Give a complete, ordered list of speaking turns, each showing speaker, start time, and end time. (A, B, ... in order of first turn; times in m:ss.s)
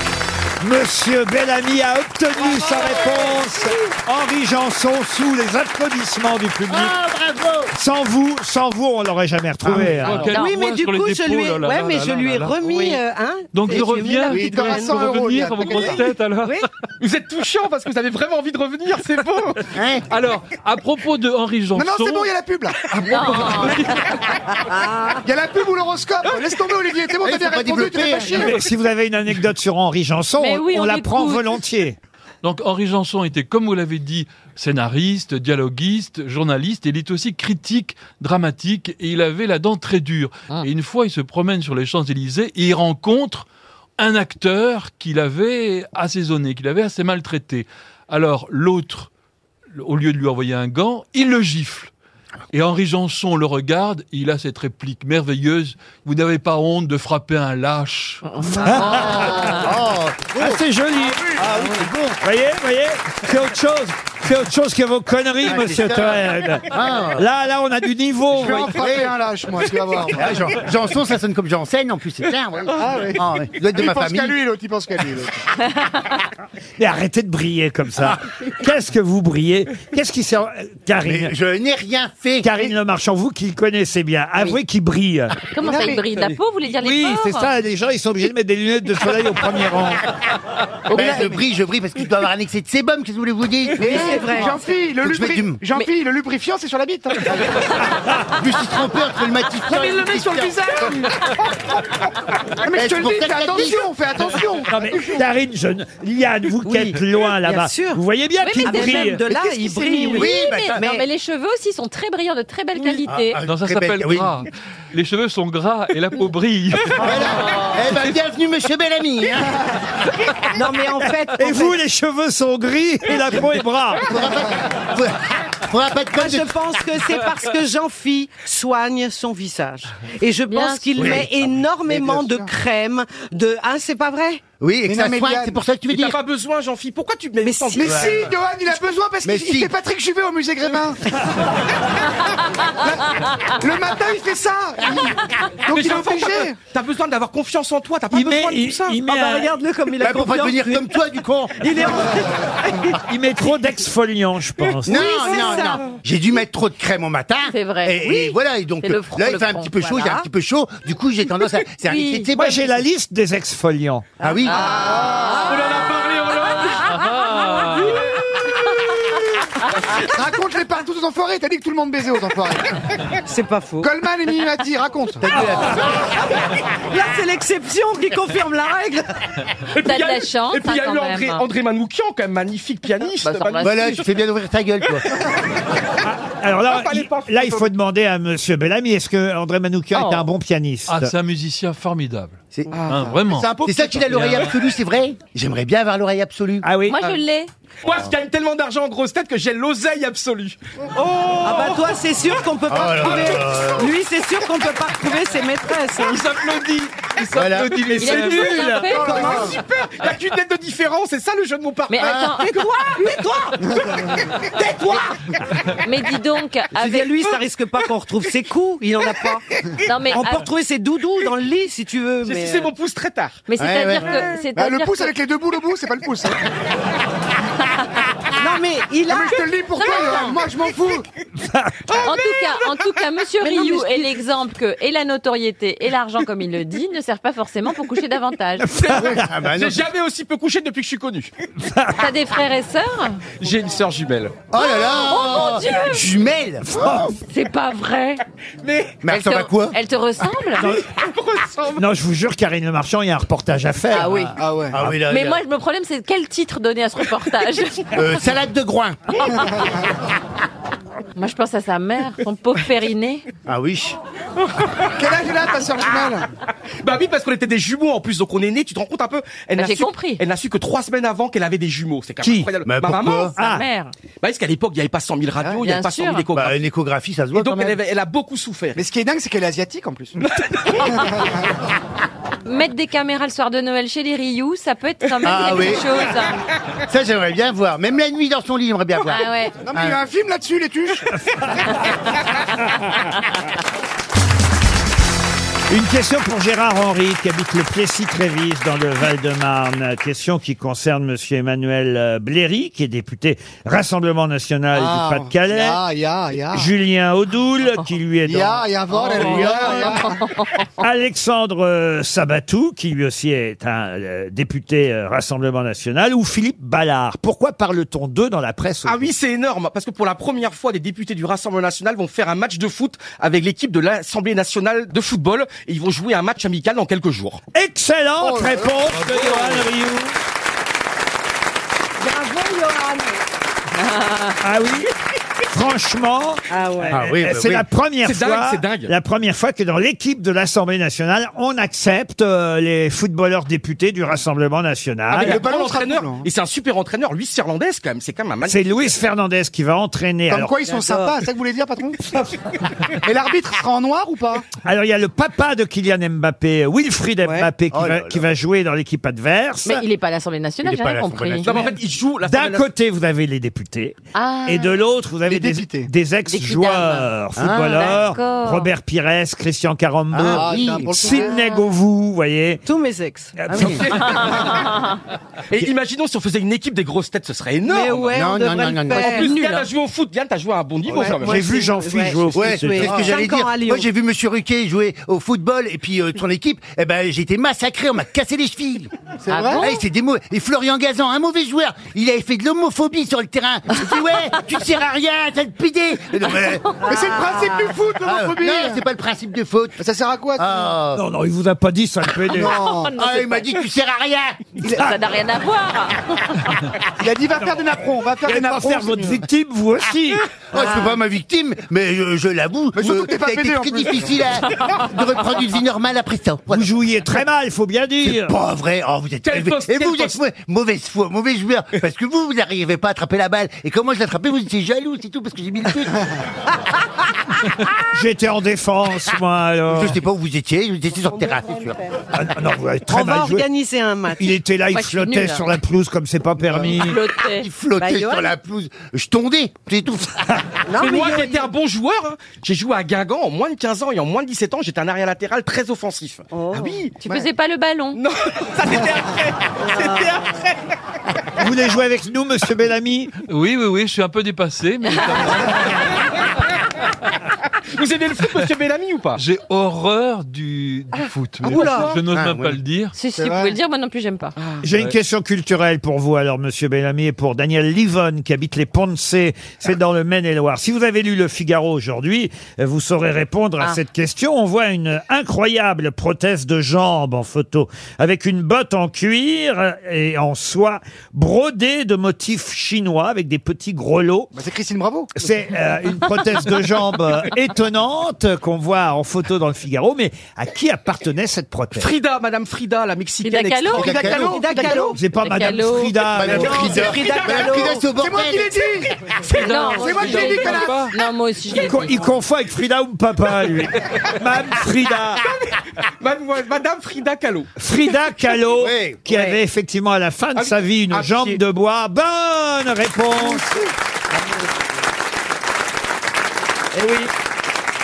0:00.6-0:07.0 A
0:02.5-0:03.3 B
0:06.7-0:07.7 C
0:07.7-0:10.4 A
0:09.6-0:13.0 D
0:10.0-0:16.6 B
0:13.5-0:16.7 D
0:13.7-0:16.1 E
0:17.0-0:19.6 F
0:19.7-0:20.1 C
0:20.1-0:22.3 D
0:21.7-0:23.6 E
0:23.0-0:24.0 G
0:24.6-0:25.3 B
0:25.2-0:28.6 E
0:27.2-0:28.6 C
0:28.5-0:32.0 A
0:30.4-0:31.6 G
0:32.4-0:43.5 D
0:44.0-0:49.1 D
0:49.7-0:51.9 D
0:52.5-0:58.2 D
0:58.3-0:59.7 G
0:58.6-0:59.7 A
0:58.9-1:00.6 C
1:00.3-1:08.8 A
1:01.3-1:02.2 C
1:05.4-1:07.2 C
1:08.3-1:10.4 E
1:08.8-1:09.1 C
1:10.1-1:14.4 C
1:12.7-1:15.4 E
1:16.8-1:21.3 A
1:21.0-1:22.6 C
1:22.4-1:25.4 A
1:25.5-1:27.5 G
1:25.6-1:26.0 E
1:26.7-1:30.0 A
1:30.9-1:31.3 G
1:30.9-1:34.4 C
1:33.8-1:37.7 E
1:33.8-1:34.6 B
1:35.0-1:35.6 C
1:38.3-1:40.9 C
1:39.7-1:41.6 E
1:42.5-1:45.2 E
1:42.7-1:43.9 C
1:44.7-1:49.2 A
1:46.6-1:51.0 B
1:48.4-1:53.4 G
1:50.1-1:50.8 C
1:53.0-1:54.4 C
1:53.4-1:57.2 D
1:57.0-1:59.7 C
2:00.5-2:01.8 B
2:01.4-2:04.1 A
2:04.1-2:06.6 C
2:06.1-2:14.4 B
2:10.5-2:11.2 G
2:11.0-2:12.4 C
2:11.9-2:12.4 E
2:14.6-2:16.2 C
2:14.8-2:15.6 E
2:15.9-2:18.2 F
2:17.4-2:17.8 B
2:17.8-2:21.0 E
2:17.8-2:18.3 C
2:19.2-2:19.7 C
2:22.8-2:26.6 E
2:25.7-2:29.0 F
2:28.1-2:29.5 A
2:29.0-2:31.0 B
2:30.0-2:32.1 C
2:31.6-2:33.0 B
2:33.1-2:35.2 A
2:34.8-2:35.9 B
2:34.8-2:42.6 C
2:37.5-2:40.2 G
2:41.8-2:42.3 G
2:42.3-2:44.1 A
2:44.2-2:44.7 C
2:44.3-2:45.8 B
2:44.5-2:45.7 G
2:44.5-2:45.5 E
2:45.5-2:46.7 F
2:46.5-2:47.7 G
2:46.9-2:48.0 D
2:47.6-2:48.0 B
2:49.9-2:52.8 E
2:53.2-2:53.9 B
2:53.8-2:55.4 E
2:55.2-2:56.1 C
2:55.4-2:55.8 B
2:56.9-2:59.1 B
2:59.7-3:04.1 F
2:59.8-3:01.4 G
3:03.2-3:04.0 G
3:03.6-3:05.3 C
3:06.0-3:11.1 A
3:06.7-3:07.7 F
3:09.9-3:10.2 G
3:10.9-3:14.6 D
3:12.5-3:13.0 C
3:12.8-3:13.9 E
3:13.6-3:16.6 C
3:16.6-3:17.0 A
3:16.9-3:17.5 G
3:17.8-3:20.6 F
3:21.4-3:26.3 B
3:22.7-3:23.9 C
3:26.0-3:28.8 D
3:27.3-3:28.2 C
3:28.0-3:29.4 G
3:28.4-3:28.8 A
3:28.9-3:29.5 B
3:28.9-3:29.6 E
3:29.1-3:32.2 F
3:31.9-3:32.6 G
3:32.0-3:32.3 C
3:32.4-3:35.1 B
3:35.8-3:37.1 G
3:36.7-3:39.4 B
3:39.8-3:40.5 G
3:40.1-3:42.7 B
3:42.2-3:43.4 F
3:43.5-3:45.1 G
3:43.6-3:44.3 C
3:44.6-3:46.4 E
3:48.4-3:49.4 B
3:49.1-3:51.1 E
3:49.8-3:50.3 G
3:50.0-3:50.2 B
3:51.4-3:52.0 A
3:52.0-3:58.7 G
3:53.4-3:54.1 B
3:58.6-3:59.2 A
3:58.8-4:01.3 F
3:59.0-3:59.8 C
4:01.6-4:02.0 A
4:02.0-4:03.2 G
4:03.4-4:04.4 F
4:04.5-4:06.7 C
4:04.6-4:06.1 G
4:06.6-4:07.1 A
4:07.2-4:08.2 G
4:08.6-4:09.0 F
4:09.0-4:09.8 C
4:09.1-4:10.7 G
4:10.6-4:11.8 F
4:11.8-4:14.4 A
4:13.9-4:14.3 G
4:14.4-4:14.8 E
4:14.7-4:15.4 C
4:15.1-4:17.9 G
4:17.9-4:19.0 C
4:21.2-4:23.2 G
4:23.5-4:24.0 C
4:24.9-4:26.3 E
4:26.8-4:33.3 F
4:29.6-4:30.2 G
4:32.2-4:32.5 A
4:32.6-4:33.3 C
4:33.4-4:33.6 A
4:33.4-4:33.9 G
4:34.2-4:36.6 F
4:35.6-4:36.2 G
4:36.3-4:37.8 C
4:37.3-4:38.8 F
4:38.8-4:40.2 E
4:40.8-4:41.4 E
4:42.4-4:46.4 G
4:45.2-4:45.9 C
4:46.9-4:50.0 C
4:49.0-4:49.6 G
4:49.6-4:51.1 E
4:51.4-4:51.7 A
4:55.7-5:05.8 A
5:04.7-5:06.7 E
5:06.5-5:10.1 A
5:08.2-5:10.2 E
5:08.9-5:10.6 G
5:10.8-5:19.1 A
5:18.8-5:27.4 F
5:27.5-5:30.2 A
5:28.2-5:28.8 E
5:29.0-5:29.5 D
5:32.0-5:33.2 B
5:33.9-5:34.3 G
5:34.4-5:34.9 A
5:35.5-5:45.4 A
5:36.5-5:37.0 B
5:36.9-5:37.6 C
5:38.0-5:38.9 F
5:45.1-5:46.2 E
5:45.1-5:48.9 F
5:48.4-5:50.6 A
5:50.3-5:52.2 E
5:50.7-5:51.2 B
5:52.9-5:54.4 E
5:54.6-5:59.8 A
5:57.2-5:57.5 B
5:57.7-5:58.2 C
5:59.6-6:01.7 G
6:00.6-6:01.7 C
6:01.4-6:02.7 F
6:02.2-6:12.6 A
6:04.1-6:04.8 G
6:05.2-6:05.9 E
6:06.3-6:07.1 G
6:07.4-6:07.9 C
6:07.6-6:08.7 G
6:10.1-6:11.2 C
6:10.2-6:11.4 E
6:12.6-6:13.4 B
6:13.4-6:14.3 A
6:13.5-6:13.9 C
6:14.0-6:15.0 G
6:15.5-6:21.6 F
6:17.6-6:19.4 B
6:18.1-6:19.1 C
6:18.9-6:19.7 G
6:20.9-6:23.9 B
6:21.2-6:23.1 A
6:22.3-6:28.9 C
6:29.2-6:29.7 E
6:29.3-6:29.8 G
6:29.6-6:37.2 C
6:36.8-6:38.8 E
6:38.0-6:39.8 C
6:39.8-6:40.7 E
6:40.4-6:41.0 C
6:40.9-6:42.6 A
6:42.3-6:42.9 E
6:42.5-6:43.6 G
6:42.9-6:44.6 C
6:44.6-6:46.4 G
6:47.0-6:49.2 E
6:48.2-6:50.3 A
6:50.5-6:56.7 C
6:52.8-6:54.3 E
6:56.5-6:58.4 A
6:58.0-7:06.1 C
6:59.2-7:00.2 F
7:07.9-7:10.0 A
7:09.7-7:11.8 C
7:12.1-7:13.4 A
7:12.9-7:14.4 B
7:14.1-7:17.0 A
7:14.7-7:15.4 G
7:16.6-7:17.5 G
7:17.3-7:20.3 C
7:17.8-7:18.3 B
7:20.7-7:21.5 B
7:20.7-7:26.9 F
7:26.3-7:26.8 B
7:27.0-7:28.0 G
7:28.0-7:30.5 F
7:29.7-7:30.2 B
7:31.4-7:33.1 A
7:33.3-7:35.9 D
7:37.7-7:39.2 F
7:39.2-7:42.9 D
7:41.4-7:41.9 E
7:41.5-7:41.9 B
7:41.5-7:41.9 F
7:42.1-7:42.6 C
7:42.9-7:44.3 G
7:43.2-7:43.6 E
7:44.6-8:04.3 A
8:04.3-8:05.1 E
8:05.1-8:11.9 A
8:11.7-8:14.8 F
8:13.2-8:13.9 G
8:13.8-8:14.4 C
8:13.8-8:14.9 E
8:14.2-8:15.0 B
8:14.9-8:17.0 A
8:15.2-8:16.1 G
8:16.1-8:18.6 C
8:16.3-8:17.8 B
8:16.4-8:17.7 F
8:17.8-8:18.9 E
8:19.3-8:20.9 D
8:19.4-8:22.0 G
8:19.5-8:20.9 E
8:21.5-8:25.2 A
8:25.2-8:27.5 F
8:27.6-8:33.4 A
8:28.6-8:29.0 C
8:30.4-8:31.4 F
8:33.2-8:33.6 E